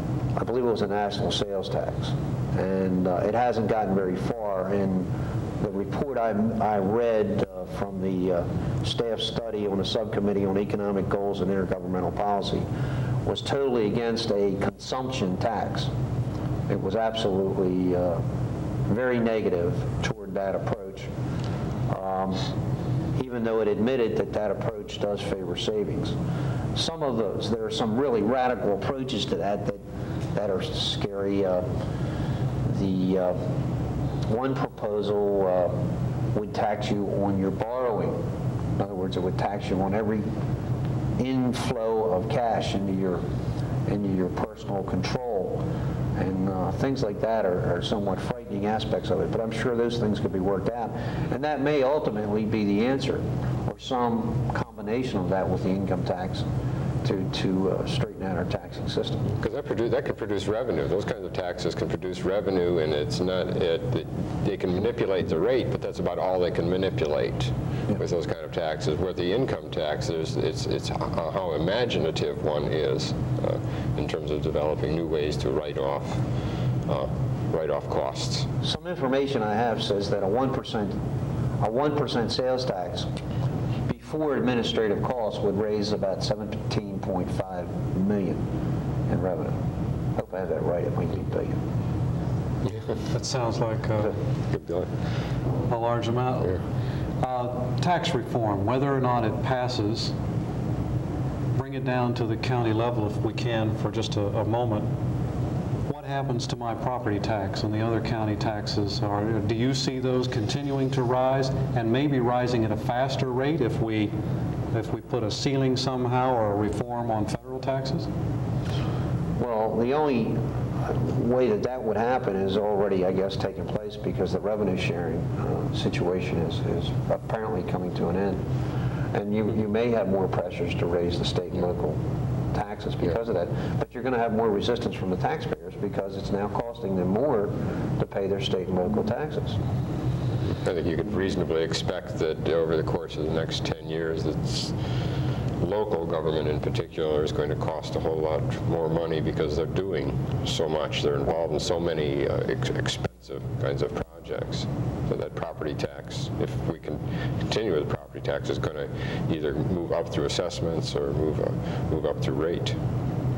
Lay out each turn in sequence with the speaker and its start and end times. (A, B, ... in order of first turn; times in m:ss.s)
0:00.4-0:12.7 A
0:13.2-0:15.9 A
0:16.7-0:18.2 A
0:18.9-0:21.1 A
0:21.9-0:22.5 A
0:23.2-0:26.2 A
0:26.7-0:29.8 A
0:30.3-0:31.7 A
0:32.6-0:33.4 A
0:34.3-0:35.8 A
0:36.3-0:38.2 A
0:38.8-0:40.3 A
0:41.2-0:43.2 A
0:43.9-0:45.6 A
0:46.2-0:56.4 A
0:57.0-0:59.3 A
0:59.4-1:16.2 B
1:16.9-1:18.5 B
1:18.6-1:21.0 A
1:21.6-1:23.1 A
1:23.9-1:28.4 A
1:29.1-1:29.6 A
1:30.2-1:31.6 A
1:33.1-1:34.2 C
1:34.5-1:34.9 B
1:35.7-1:36.6 C
1:37.2-1:40.1 C
1:41.5-1:44.9 C
1:45.9-1:54.1 C
1:54.7-1:58.1 C
1:59.4-2:08.4 A
2:09.1-2:12.0 A
2:12.5-2:19.6 A
2:20.6-2:24.8 B
2:25.6-2:42.8 B